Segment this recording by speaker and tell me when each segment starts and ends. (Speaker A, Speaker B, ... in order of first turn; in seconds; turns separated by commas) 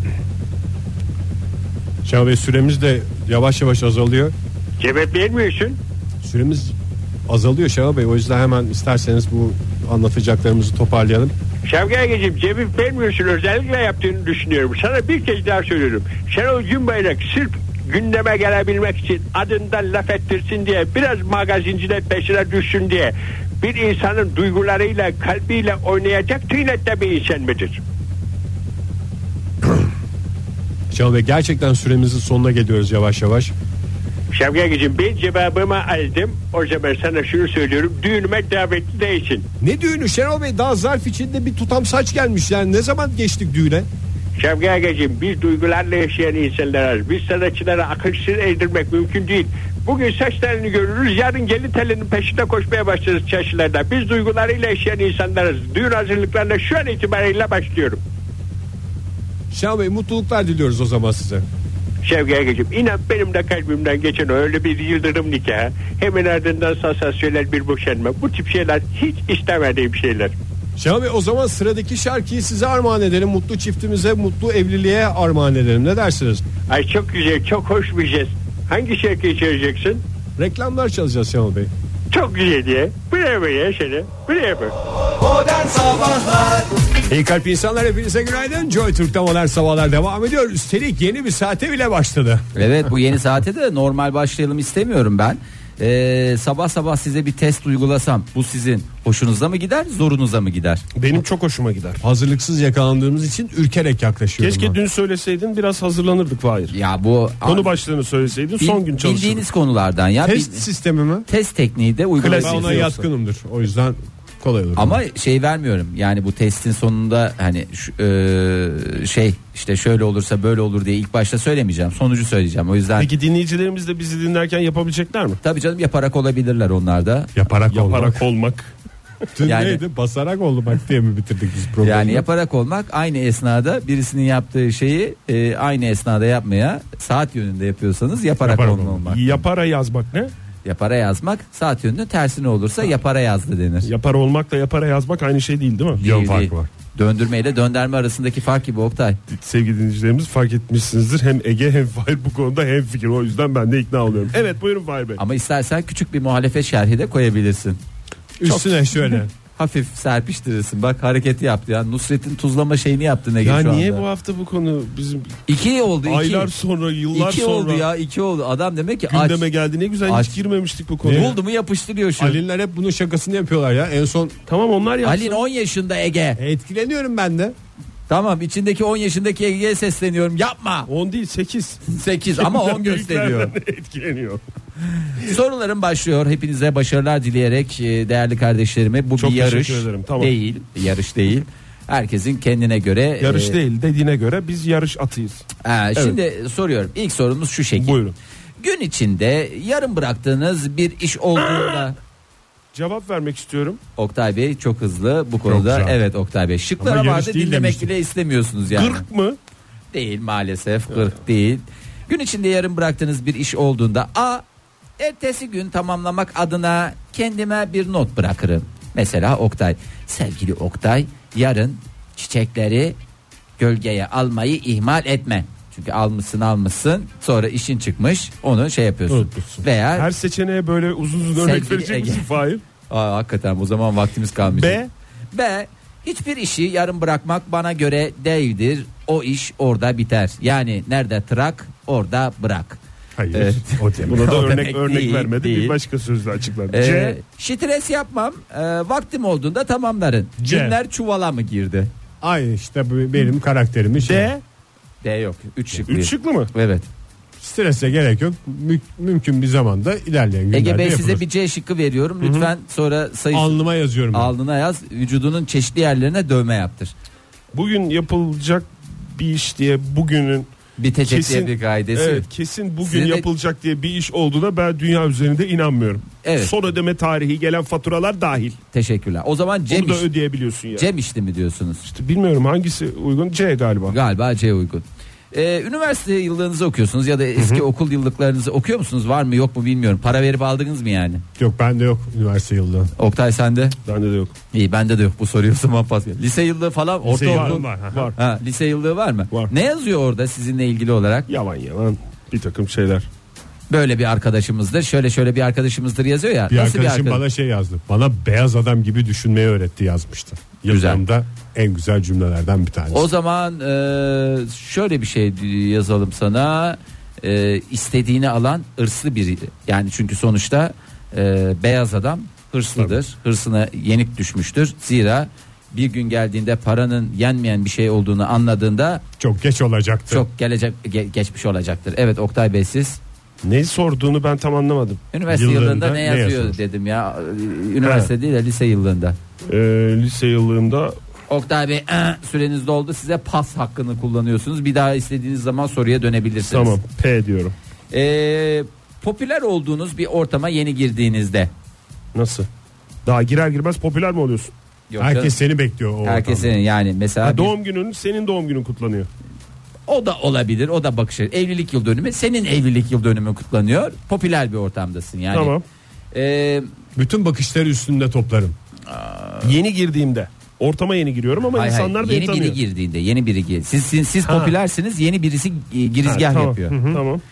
Speaker A: 2.0-4.3, Speaker B: 4.8-5.8, Speaker A: 6.2-6.7, Speaker A: 7.3-11.3, Speaker B: 11.7-27.8, Speaker A: 30.9-33.5, Speaker B: 34.3-39.5, Speaker A: 39.6-43.9, Speaker B: 44.4-58.0, Speaker A: 59.5-61.5, Speaker B: 62.0-70.3, Speaker A: 70.8-76.4, Speaker B: 76.7-80.0, Speaker A: 80.4-81.7, Speaker B: 82.1-84.7, Speaker C: 85.4-86.6, Speaker A: 87.1-92.5, Speaker C: 92.5-100.8, Speaker D: 101.0-102.0, Speaker A: 102.0-104.8, Speaker D: 104.4-106.7, Speaker C: 106.7-107.7, Speaker D: 107.4-109.4, Speaker C: 108.6-110.7, Speaker A: 110.2-111.3, Speaker C: 111.3-113.0, Speaker D: 112.2-113.0, Speaker A: 112.3-115.0, Speaker C: 114.8-123.1, Speaker D: 123.0-125.4, Speaker C: 125.4-127.3, Speaker A: 127.4-128.2, Speaker D: 127.7-128.7, Speaker A: 129.4-132.3, Speaker C: 129.4-129.8, Speaker C: 131.8-139.4, Speaker A: 138.4-139.0, Speaker D: 139.1-140.3, Speaker C: 140.7-143.9, Speaker D: 143.8-146.0, Speaker A: 146.0-146.7, Speaker C: 146.0-149.2, Speaker D: 149.3-155.2, Speaker C: 155.2-157.8, Speaker A: 158.4-159.3, Speaker C: 159.6-164.0, Speaker D: 163.4-165.4, Speaker C: 165.5-166.5, Speaker D: 166.1-167.9, Speaker C: 167.1-169.4, Speaker D: 169.1-171.4, Speaker C: 170.1-170.3, Speaker A: 171.0-171.3, Speaker C: 171.1-172.4, Speaker A: 172.2-174.3, Speaker D: 174.5-175.4, Speaker C: 175.0-176.4, Speaker A: 176.4-177.6, Speaker C: 178.1-180.9, Speaker D: 180.9-181.8, Speaker C: 181.9-183.5, Speaker D: 182.3-184.4, Speaker C: 185.2-193.6, Speaker D: 189.2-190.3, Speaker D: 193.2-196.2, Speaker C: 195.6-198.0, Speaker D: 197.8-198.2, Speaker C: 198.6-202.0, Speaker D: 202.7-203.8, Speaker C: 204.0-209.0, Speaker A: 205.5-206.0, Speaker A: 206.8-207.9, Speaker D: 208.7-209.4, Speaker C: 209.9-214.4, Speaker C: 215.0-223.0, Speaker C: 223.6-230.1, Speaker D: 229.1-232.6, Speaker C: 231.4-232.3, Speaker C: 232.9-242.8, Speaker D: 234.4-234.9, Speaker A: 243.2-244.5, Speaker C: 243.3-245.8, Speaker D: 244.1-247.2, Speaker C: 246.7-251.9, Speaker A: 250.4-250.8, Speaker A: 252.2-254.3, Speaker D: 254.0-254.4, Speaker C: 255.0-256.9, Speaker D: 255.9-256.5, Speaker A: 257.4-261.2, Speaker C: 260.5-266.9, Speaker A: 263.3-264.3, Speaker D: 267.5-270.5, Speaker C: 270.8-272.3, Speaker D: 271.1-278.6, Speaker C: 272.9-273.2, Speaker C: 276.2-276.5, Speaker C: 278.7-280.1, Speaker D: 279.7-280.9, Speaker C: 280.8-281.8, Speaker D: 281.9-284.0, Speaker C: 283.9-291.2, Speaker D: 287.4-287.6, Speaker A: 291.4-292.9, Speaker C: 293.0-293.8, Speaker D: 293.9-294.3, Speaker C: 294.5-301.3, Speaker A: 297.1-298.1, Speaker D: 297.2-298.2, Speaker D: 301.3-303.1, Speaker C: 303.7-307.2, Speaker A: 306.5-313.1, Speaker C: 310.7-311.0, Speaker C: 312.9-329.0, Speaker A: 329.2-330.3, Speaker C: 330.1-333.0, Speaker D: 333.4-335.0, Speaker C: 335.1-339.2, Speaker A: 335.3-336.6, Speaker D: 337.8-338.1, Speaker D: 339.5-341.0, Speaker C: 341.3-346.8, Speaker D: 346.5-347.5, Speaker C: 347.9-351.5, Speaker D: 352.1-352.5, Speaker D: 353.1-354.5, Speaker C: 354.9-355.3, Speaker A: 355.0-356.5, Speaker C: 356.0-357.5, Speaker D: 357.2-359.1, Speaker C: 359.9-365.5, Speaker D: 365.3-365.6, Speaker C: 366.1-366.7, Speaker A: 367.0-368.6, Speaker C: 368.9-369.5, Speaker D: 369.4-372.6, Speaker C: 371.5-376.8, Speaker D: 374.2-374.6, Speaker D: 376.1-377.2, Speaker A: 376.7-377.0